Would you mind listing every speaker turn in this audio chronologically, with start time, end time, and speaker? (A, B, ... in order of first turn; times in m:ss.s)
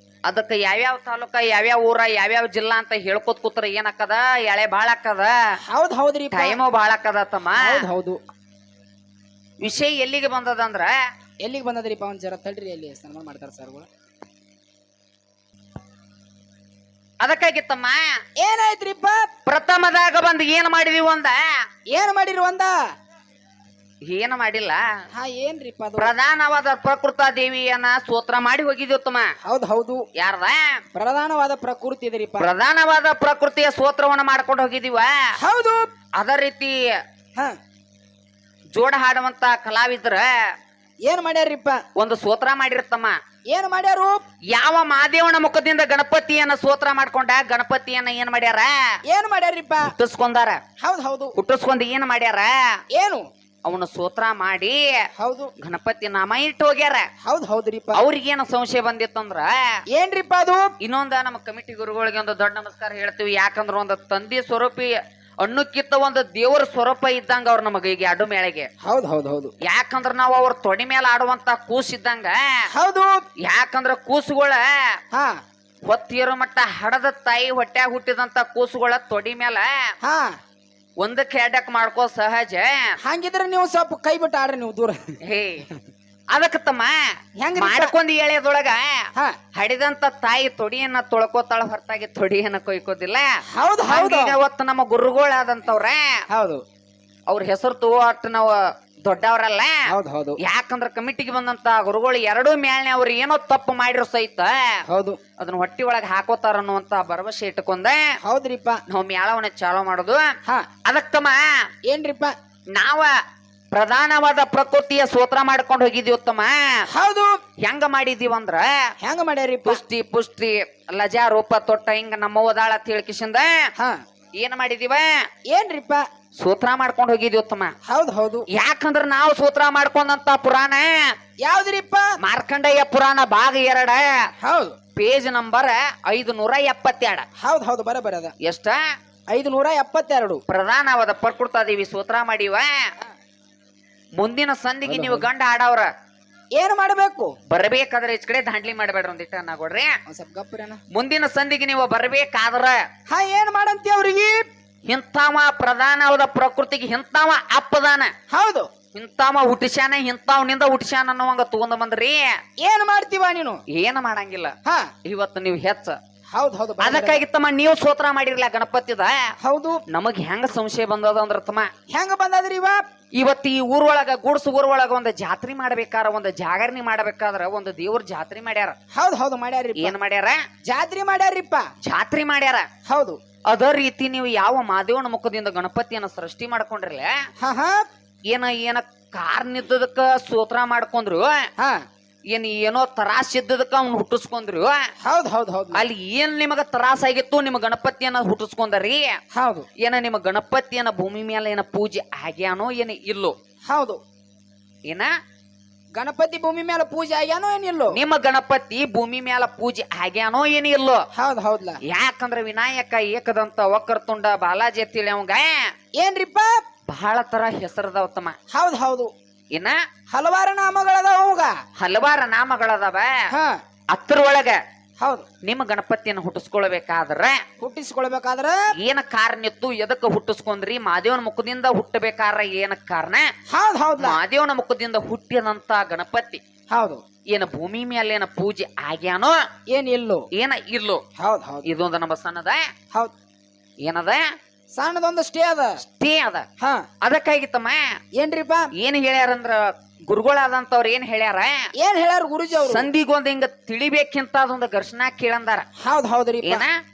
0:00.3-0:05.4 A
0:05.7-0:06.6 B
0:06.3-0:07.9 A
0:07.6-0:08.2 B
0:09.6-0:11.0 A
0:11.4-0:13.9 B
0:17.2-0:18.0 A
0:18.4-0:19.3 B
0:19.5-0:21.4 A
0:21.9-0:22.8 B
0:24.1-0:24.8 A
0:25.1-0:26.1 B
0:26.0-0:29.3 A
0:29.4-0:30.1 B
0:30.2-0:30.8 A
0:31.0-0:32.5 B
0:32.4-0:35.3 A
0:35.4-0:35.9 B
0:36.2-0:36.8 A
0:38.8-0:40.3 A
0:41.1-0:41.8 B
0:42.0-0:43.2 A
0:43.5-0:44.2 B
0:44.5-0:48.8 A
0:49.1-0:49.9 B
0:49.8-0:50.6 A
0:50.8-0:51.3 B
0:51.4-0:52.6 A
0:52.9-0:53.2 B
0:53.7-0:54.8 A
0:55.2-0:55.5 B
0:55.6-0:57.1 A
0:57.2-0:58.0 B
0:57.9-0:59.6 A
0:59.9-1:00.7 B
1:00.8-1:08.7 A
1:08.8-1:09.5 B
1:09.6-1:12.7 A
1:12.7-1:13.1 B
1:13.4-1:15.0 A
1:15.1-1:15.4 B
1:15.9-1:19.7 A
1:20.0-1:20.4 B
1:21.0-1:22.9 A
1:23.0-1:25.1 B
1:25.2-1:25.7 A
1:26.3-1:27.0 A
1:27.4-1:27.9 B
1:27.6-1:33.3 A
1:33.5-1:34.4 B
1:33.9-1:36.1 A
1:36.3-1:36.6 B
1:37.3-1:39.8 A
1:39.9-1:40.4 B
1:40.4-1:44.8 A
1:44.9-1:45.2 B
1:45.4-1:48.0 A
1:48.2-1:48.8 B
1:48.9-1:50.2 A
1:50.9-1:51.5 A
1:51.9-1:52.3 B
1:52.8-1:53.1 A
1:53.7-1:56.9 A
1:56.9-1:57.4 B
1:57.6-1:58.9 A
1:59.0-1:59.8 B
1:59.7-2:03.7 A
2:04.4-2:05.2 A
2:05.5-2:06.0 B
2:06.4-2:07.7 A
2:07.9-2:08.5 B
2:08.5-2:11.1 A
2:11.4-2:12.1 B
2:12.2-2:14.3 A
2:14.4-2:14.8 B
2:15.0-2:17.2 A
2:17.4-2:18.3 B
2:18.4-2:18.8 A
2:19.3-2:20.4 B
2:20.5-2:22.8 A
2:24.2-2:25.9 A
2:24.8-2:25.3 B
2:26.6-2:27.4 B
2:27.5-2:30.0 A
2:30.1-2:30.8 B
2:30.9-2:32.8 A
2:33.1-2:34.4 B
2:34.9-2:38.1 A
2:38.3-2:38.7 B
2:38.9-2:42.4 A
2:42.6-2:43.6 B
2:43.7-2:44.5 A
2:44.7-2:44.9 B
2:45.0-2:46.0 A
2:46.3-2:47.2 B
2:46.8-2:49.3 A
2:49.4-2:49.8 B
2:49.9-2:51.7 A
2:51.9-2:52.8 B
2:53.2-2:58.8 A
2:58.9-3:00.0 B
2:59.8-3:00.4 A
3:00.6-3:01.7 B
3:01.8-3:02.7 A
3:02.9-3:03.2 B
3:03.5-3:07.2 A
3:07.4-3:07.8 B
3:08.3-3:11.5 A
3:11.6-3:11.8 B
3:12.3-3:14.8 A
3:15.0-3:15.9 B
3:15.7-3:19.2 A
3:19.3-3:19.7 B
3:19.8-3:23.3 A
3:23.7-3:24.0 B
3:26.0-3:28.0 B
3:27.9-3:31.0 A
3:31.1-3:31.8 B
3:31.8-3:35.6 A
3:36.0-3:36.5 B
3:36.9-3:38.4 A
3:38.5-3:39.1 B
3:40.1-3:41.5 B
3:41.8-3:43.2 A
3:43.3-3:43.6 B
3:43.9-3:44.6 A
3:45.0-3:45.3 B
3:45.4-3:47.4 A
3:47.6-3:48.6 B
3:48.8-3:53.3 A
3:53.5-3:54.2 B
3:54.0-3:56.4 A
3:56.7-3:57.0 B
3:57.3-3:59.4 A
3:59.7-4:00.3 B
4:00.3-4:01.0 A
4:01.2-4:01.6 B
4:01.6-4:02.6 A
4:03.8-4:04.2 A
4:04.8-4:05.8 B
4:05.8-4:06.5 A
4:06.6-4:06.9 B
4:07.0-4:08.0 A
4:08.2-4:08.7 B
4:08.8-4:11.7 A
4:11.8-4:12.9 B
4:12.6-4:15.7 A
4:15.8-4:16.7 B
4:16.4-4:16.8 A